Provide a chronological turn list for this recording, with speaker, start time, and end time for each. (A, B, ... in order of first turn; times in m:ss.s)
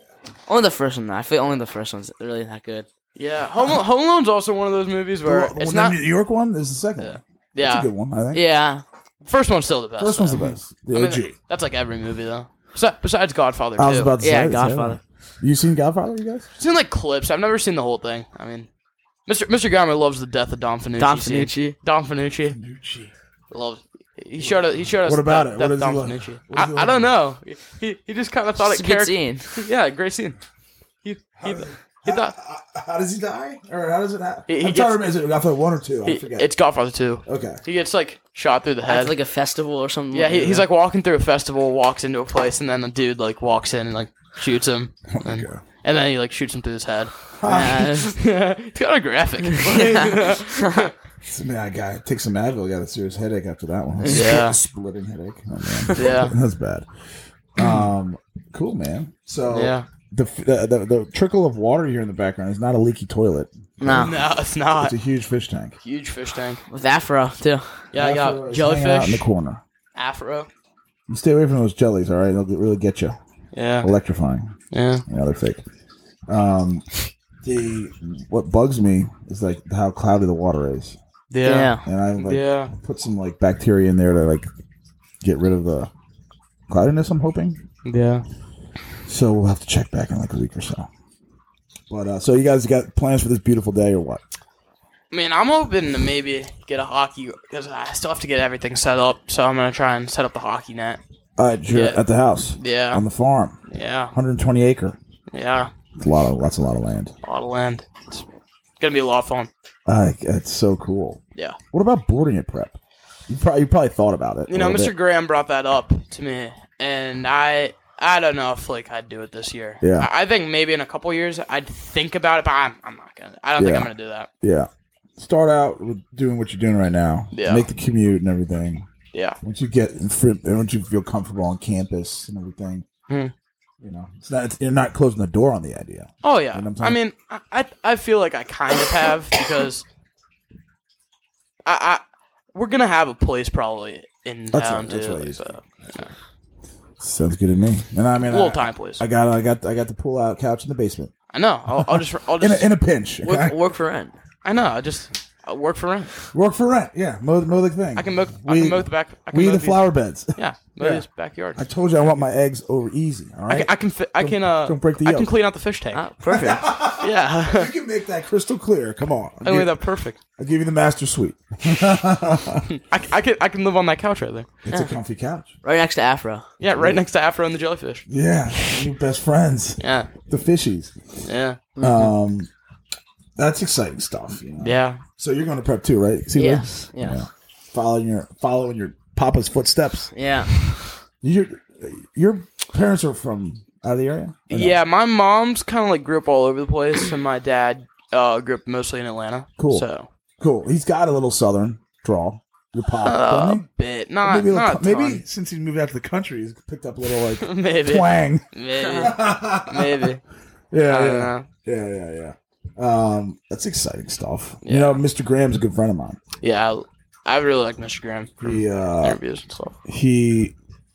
0:00.5-0:02.9 A
0:03.2-0:06.0 B
0:05.2-0:08.4 C
0:07.0-0:07.9 B
0:08.3-0:08.8 A
0:09.2-0:14.1 B
0:10.0-0:11.3 C
0:13.8-0:16.5 C
0:14.2-0:15.0 A
0:16.6-0:18.7 B
0:19.3-0:22.6 B
0:21.0-0:21.8 A
0:22.5-0:23.1 C
0:23.5-0:30.4 B
0:24.4-0:27.1 C
0:28.6-0:29.6 A
0:31.0-0:32.4 B
0:31.4-0:36.5 C
0:34.5-0:35.1 B
0:36.0-0:39.2 B
0:37.2-0:37.6 C
0:38.8-0:40.6 A
0:40.1-0:50.9 B
0:45.1-0:45.6 C
0:47.4-0:47.9 C
0:47.4-0:48.1 A
0:49.6-0:50.9 A
0:51.2-0:56.9 C
0:54.0-0:54.4 A
0:54.1-0:54.6 B
0:56.0-0:56.3 B
0:57.6-1:05.8 C
0:59.5-0:59.9 B
1:03.8-1:04.2 A
1:03.9-1:05.0 B
1:05.8-1:06.6 B
1:06.7-1:07.8 A
1:07.9-1:09.2 B
1:08.0-1:09.6 C
1:10.0-1:10.5 B
1:11.1-1:13.2 C
1:13.5-1:13.9 B
1:13.8-1:14.6 C
1:14.7-1:15.0 B
1:15.1-1:15.6 C
1:16.3-1:16.9 C
1:17.4-1:21.0 C
1:21.3-1:22.7 B
1:21.4-1:21.8 A
1:21.8-1:24.5 C
1:25.2-1:25.9 C
1:26.7-1:27.6 C
1:27.8-1:28.2 B
1:29.1-1:30.9 C
1:31.9-1:34.2 C
1:35.1-1:41.0 B
1:41.4-1:43.6 C
1:41.7-1:42.0 B
1:42.6-1:43.0 B
1:43.7-1:44.1 B
1:44.1-1:45.0 C
1:45.3-1:45.7 B
1:46.0-1:47.1 C
1:47.2-1:48.2 B
1:48.8-1:49.5 B
1:49.9-1:51.2 C
1:51.7-1:52.8 C
1:53.3-1:54.9 C
1:54.5-2:04.3 B
1:59.8-2:00.1 C
2:03.6-2:08.9 C
2:07.3-2:07.7 B
2:09.4-2:12.9 C
2:13.8-2:17.0 C
2:16.2-2:19.8 B
2:21.6-2:22.0 B
2:22.5-2:26.1 B
2:24.5-2:26.1 C
2:27.0-2:31.1 C
2:28.2-2:29.0 B
2:31.3-2:32.7 B
2:31.7-2:33.6 C
2:33.2-2:34.1 A
2:34.4-2:36.1 B
2:36.3-2:41.0 C
2:38.0-2:41.6 B
2:41.6-2:45.3 C
2:43.5-2:46.0 B
2:45.9-2:46.8 A
2:46.3-2:49.8 C
2:47.0-2:47.7 B
2:49.4-2:50.2 B
2:50.4-2:52.7 C
2:52.9-2:54.5 B
2:54.6-2:55.5 C
2:55.6-2:56.5 A
2:56.6-2:58.0 B
2:56.8-2:57.0 C
2:58.1-3:00.9 C
2:59.8-3:00.1 B
3:01.2-3:01.6 B
3:01.8-3:02.1 A
3:01.8-3:02.5 C
3:03.4-3:10.1 C
3:04.6-3:05.0 B
3:06.4-3:07.2 A
3:10.1-3:10.6 A
3:11.2-3:14.8 C
3:14.5-3:20.1 B
3:19.6-3:19.9 C
3:20.4-3:23.7 C
3:23.0-3:25.2 B
3:24.2-3:30.1 C
3:27.4-3:30.2 B
3:28.8-3:29.1 A
3:30.7-3:36.2 C
3:30.8-3:31.5 B
3:34.6-3:35.0 B
3:36.4-3:39.8 B
3:38.4-3:39.2 C
3:39.9-3:40.5 C